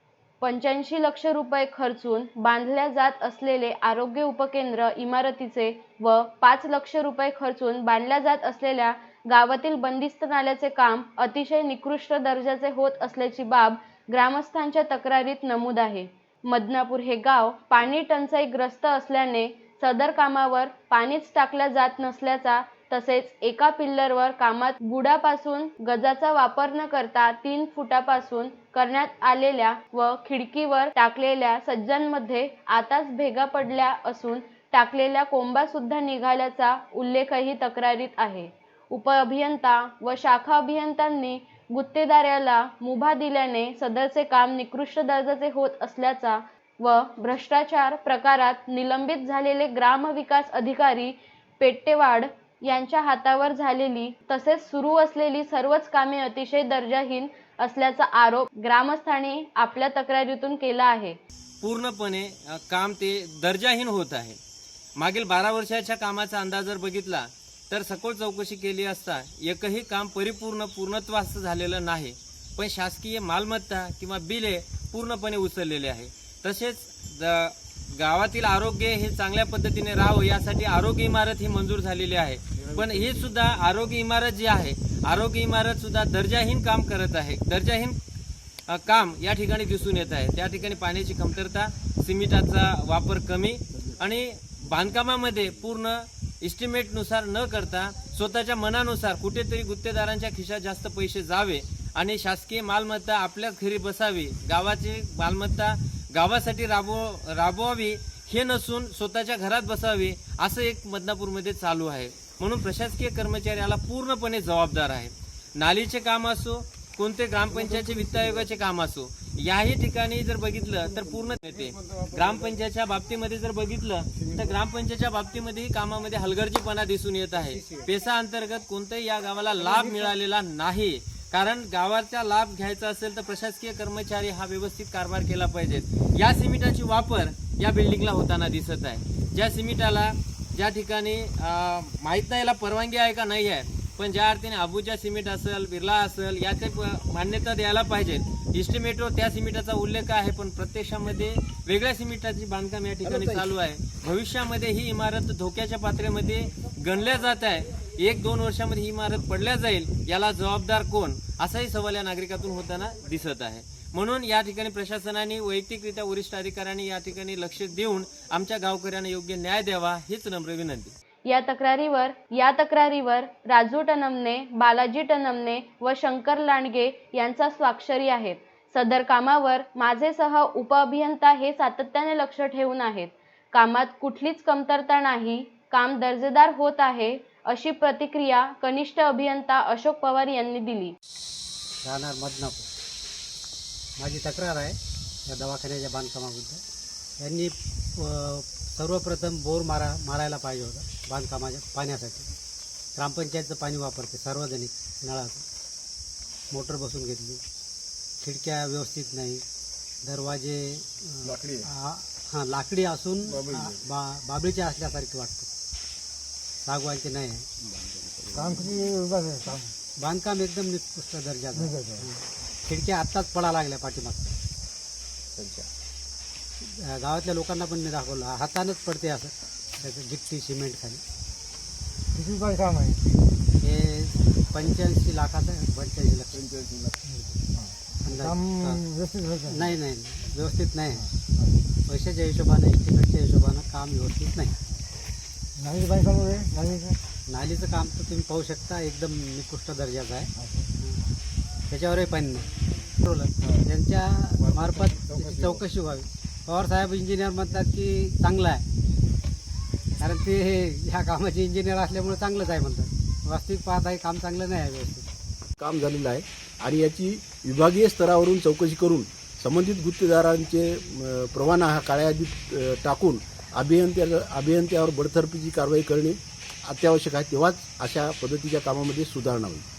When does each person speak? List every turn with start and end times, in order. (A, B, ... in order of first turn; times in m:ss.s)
0:00.4-1:01.2 A
1:01.6-1:04.4 B
1:05.0-1:28.0 B
1:28.7-2:50.9 B
2:33.0-2:33.4 C
2:51.2-3:10.9 A
3:11.8-3:12.7 D
3:14.0-3:16.6 D
3:17.2-3:22.3 D
3:22.9-3:25.4 D
3:26.5-3:27.4 D
3:28.2-3:29.4 D
3:30.0-3:35.5 D
3:36.6-3:37.4 D
3:37.7-3:38.8 C
3:38.4-3:39.7 E
3:40.0-3:44.4 D
3:45.4-3:45.7 C
3:46.6-3:51.0 D
3:52.2-3:53.0 E
3:53.6-3:56.5 D
3:58.0-3:58.9 D
3:58.8-3:59.5 E
3:59.4-4:01.1 D
4:01.8-4:04.6 D
4:05.6-4:07.0 E
4:07.3-4:11.0 D
4:11.7-4:18.6 D
4:20.0-4:25.1 D
4:25.6-4:39.6 C